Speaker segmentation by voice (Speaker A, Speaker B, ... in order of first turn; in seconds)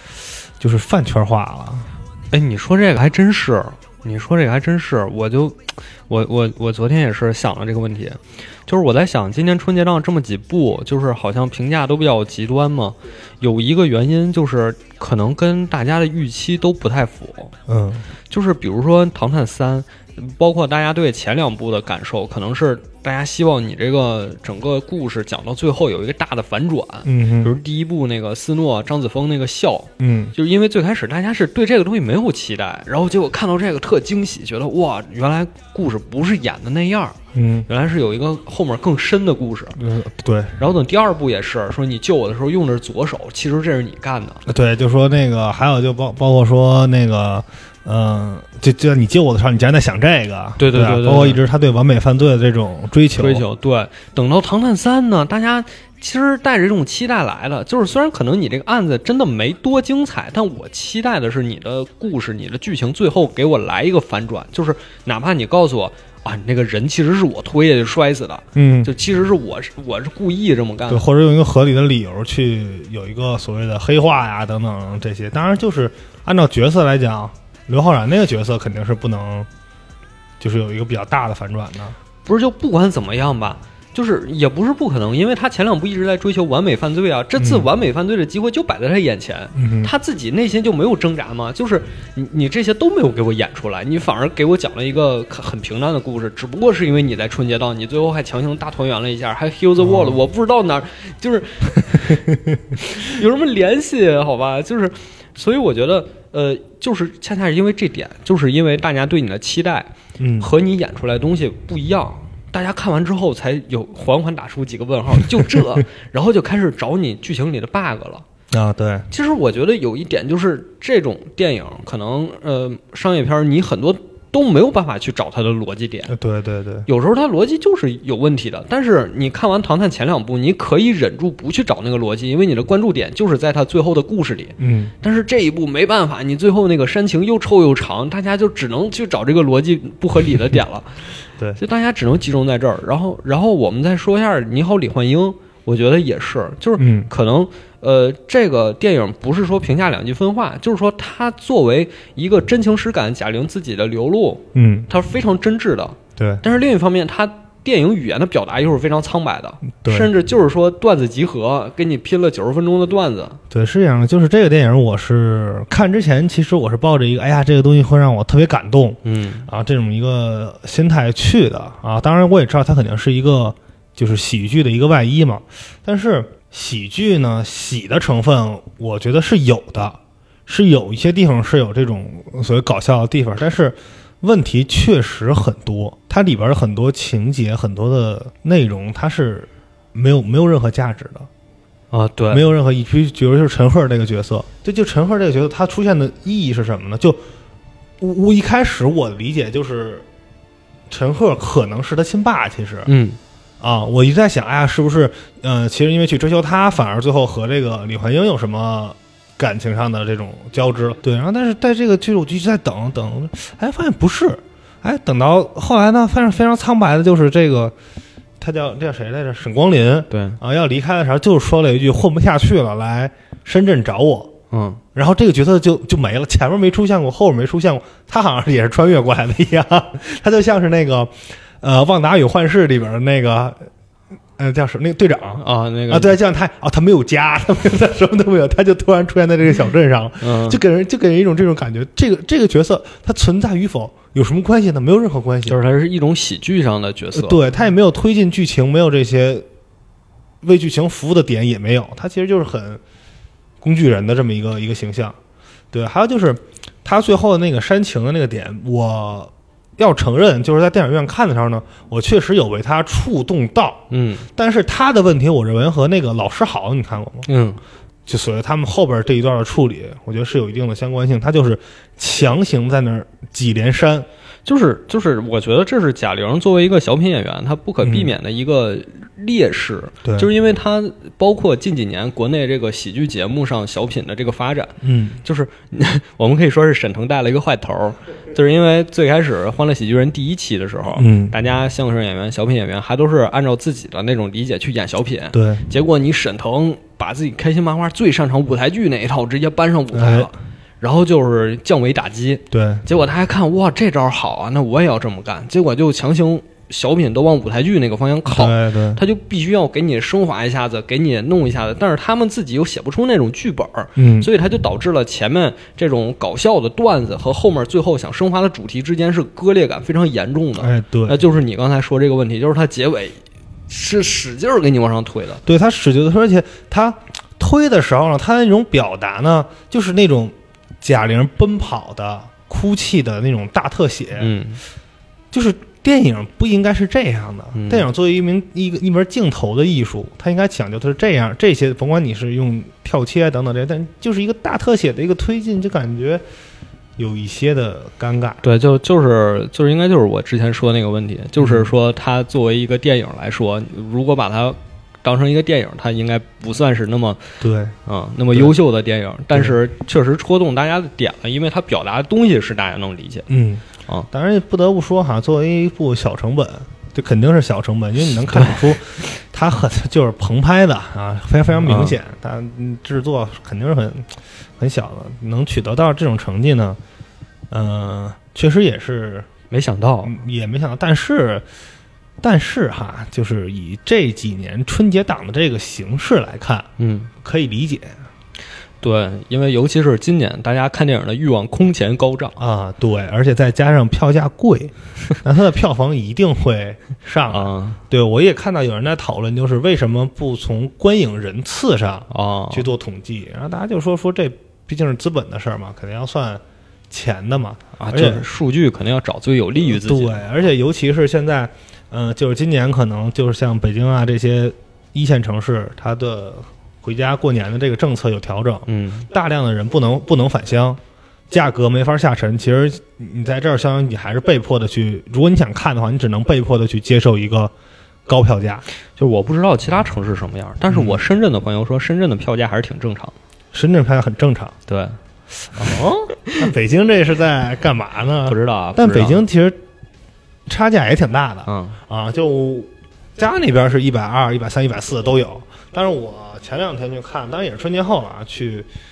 Speaker A: 0.6-1.9, 17.7-18.1, 27.1-27.5, 30.0-30.3, 37.3-37.7, 39.8-40.6, 44.5-53.4, 68.5-68.9, 70.9-79.5, 80.4-82.0, 87.4-87.7, 89.5-89.9, 99.8-100.2, 110.2-110.5, 118.5-119.1, 126.1-126.9, 134.6-134.9, 146.8-147.1, 154.5-154.9, 156.2-156.4, 159.8-160.1, 163.5-191.3, 192.3-197.2, 198.0-200.1, 200.9-202.9, 203.6-217.8, 218.4-224.3, 224.9-233.7, 234.4-245.6, 247.1-249.5, 250.4-252.8, 253.6-255.2, 255.7-263.8, 264.4-267.3, 268.1-274.1, 277.8-278.1, 280.0-280.3, 284.8-285.2, 291.0-291.3, 295.3-295.6, 299.9-300.3, 302.5-302.8, 308.3-309.0, 314.0-314.3, 320.6-321.2, 325.4-334.3, 335.3-346.2, 347.0-348.4, 351.4-351.7, 357.4-357.8, 363.3-376.8, 377.5-379.3, 380.1-381.4, 382.2-386.7, 387.2-388.0, 392.4-408.2, 409.6-420.8, 421.3-427.5, 428.1-428.6, 430.7-431.0, 433.5-434.6, 436.4-439.6, 440.5-448.7
Speaker B: 2.3-17.5, 18.3-37.2, 37.7-39.8, 40.6-44.4, 50.6-51.4, 53.2-71.0, 82.2-102.2, 102.8-118.2, 119.1-126.2, 126.9-141.0, 141.6-163.4, 169.0-169.5, 191.9-192.5, 202.9-203.2, 220.1-220.4, 224.5-224.8, 235.4-236.2, 240.2-240.6, 245.5-247.4, 263.9-264.3, 267.3-267.6, 274.5-325.4, 334.2-334.6, 337.5-337.9, 348.4-363.3, 368.3-368.6, 371.6-372.0, 379.5-380.1, 386.8-387.1, 388.8-392.4, 397.3-397.8, 402.1-402.7, 407.8-410.3, 418.7-419.1, 429.0-433.1, 434.7-435.0, 435.5-436.5, 438.3-439.2, 441.5-441.8